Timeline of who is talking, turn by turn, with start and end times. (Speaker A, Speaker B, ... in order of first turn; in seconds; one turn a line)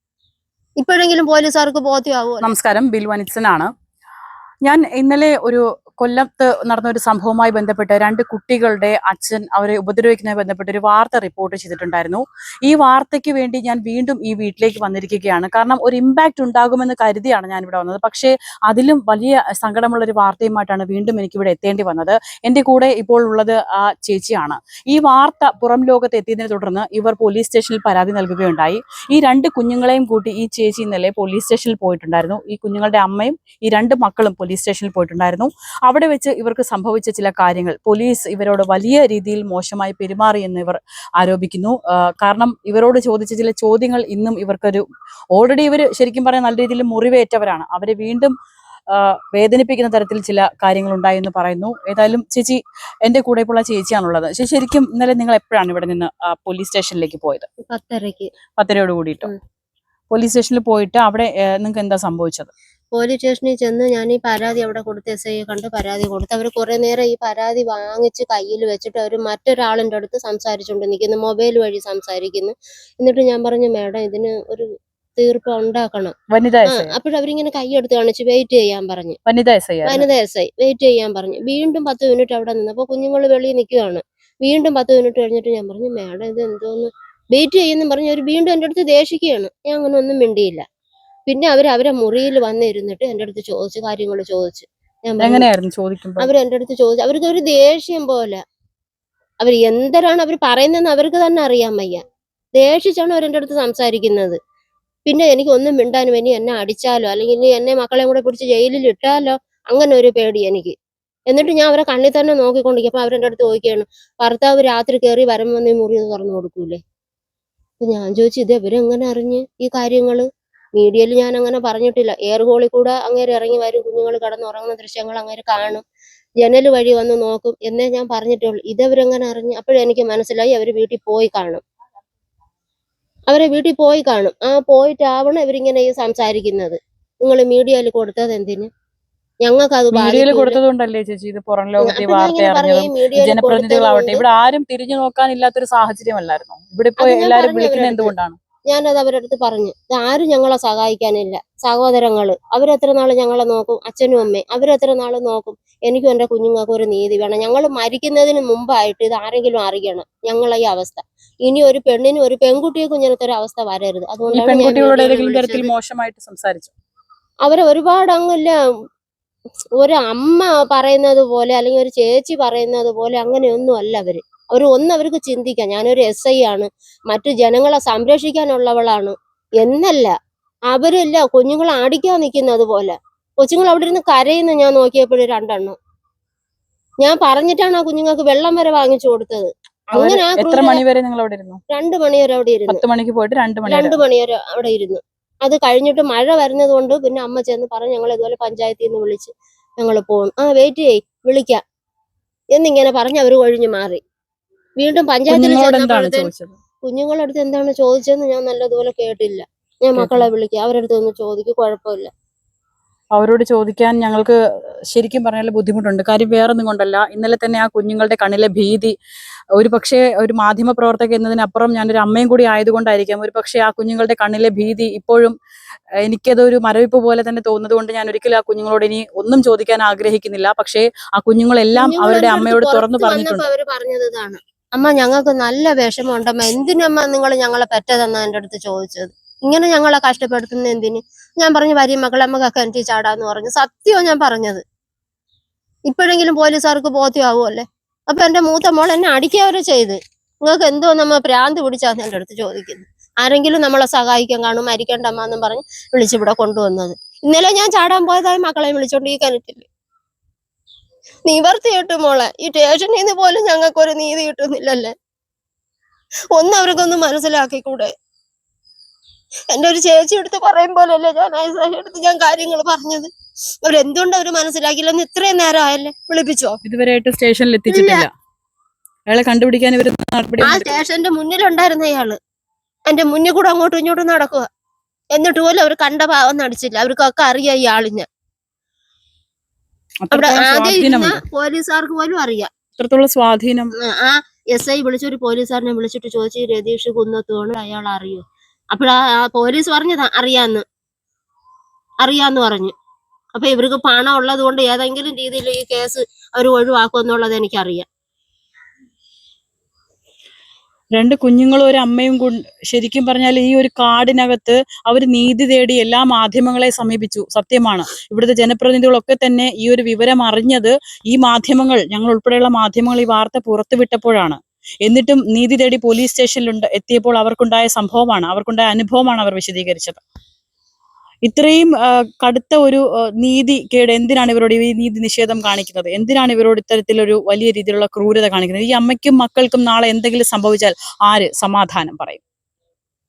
Speaker A: 0.8-2.5
Speaker B: 2.4-3.7
Speaker B: 4.7-44.8
Speaker B: 45.3-48.3
Speaker B: 48.9-57.5
Speaker A: 57.7-58.3
Speaker B: 58.6-59.3
Speaker B: 60.1-62.5
Speaker A: 62.9-76.1
Speaker B: 76.3-76.9
Speaker A: 76.7-79.2
Speaker B: 79.2-80.0
Speaker A: 79.8-90.6
Speaker A: 91.3-95.5
Speaker B: 95.2-96.3
Speaker A: 96.2-98.4
Speaker A: 99.4-102.0
Speaker A: 102.6-104.4
Speaker A: 105.0-110.7
Speaker A: 111.3-116.8
Speaker A: 117.8-125.8
Speaker A: 126.4-131.6
Speaker A: 133.3-138.7
Speaker A: 139.4-140.6
Speaker B: 139.9-148.4
Speaker A: 141.8-144.2
Speaker A: 147.0-148.1
Speaker A: 148.7-165.7
Speaker B: 164.3-166.7
Speaker A: 167.4-168.6
Speaker A: 169.8-180.1
Speaker A: 180.7-185.8
Speaker A: 187.0-190.8
Speaker B: 189.9-191.6
Speaker A: 191.7-192.8
Speaker B: 192.7-194.0
Speaker A: 193.7-201.6
Speaker A: 202.5-204.0
Speaker A: 204.8-206.3
Speaker B: 205.3-206.5
Speaker A: 206.8-212.1
Speaker B: 209.9-210.3
Speaker B: 213.2-214.3
Speaker B: 214.9-218.9
Speaker B: 219.6-225.4
Speaker B: 226.1-233.4
Speaker A: 231.7-244.6
Speaker A: 245.9-259.7
Speaker A: 261.2-264.9
Speaker A: 266.3-267.9
Speaker A: 269.5-273.1
Speaker A: 273.6-276.6
Speaker B: 276.6-278.1
Speaker A: 277.7-278.1
Speaker B: 279.1-280.8
Speaker A: 280.4-282.2
Speaker A: 282.9-284.4
Speaker A: 285.1-288.1
Speaker B: 290.0-291.2
Speaker A: 290.1-292.5
Speaker B: 292.8-293.7
Speaker A: 293.8-300.6
Speaker A: 302.0-302.7
Speaker A: 303.3-307.9
Speaker B: 310.9-330.0
Speaker B: 331.2-342.2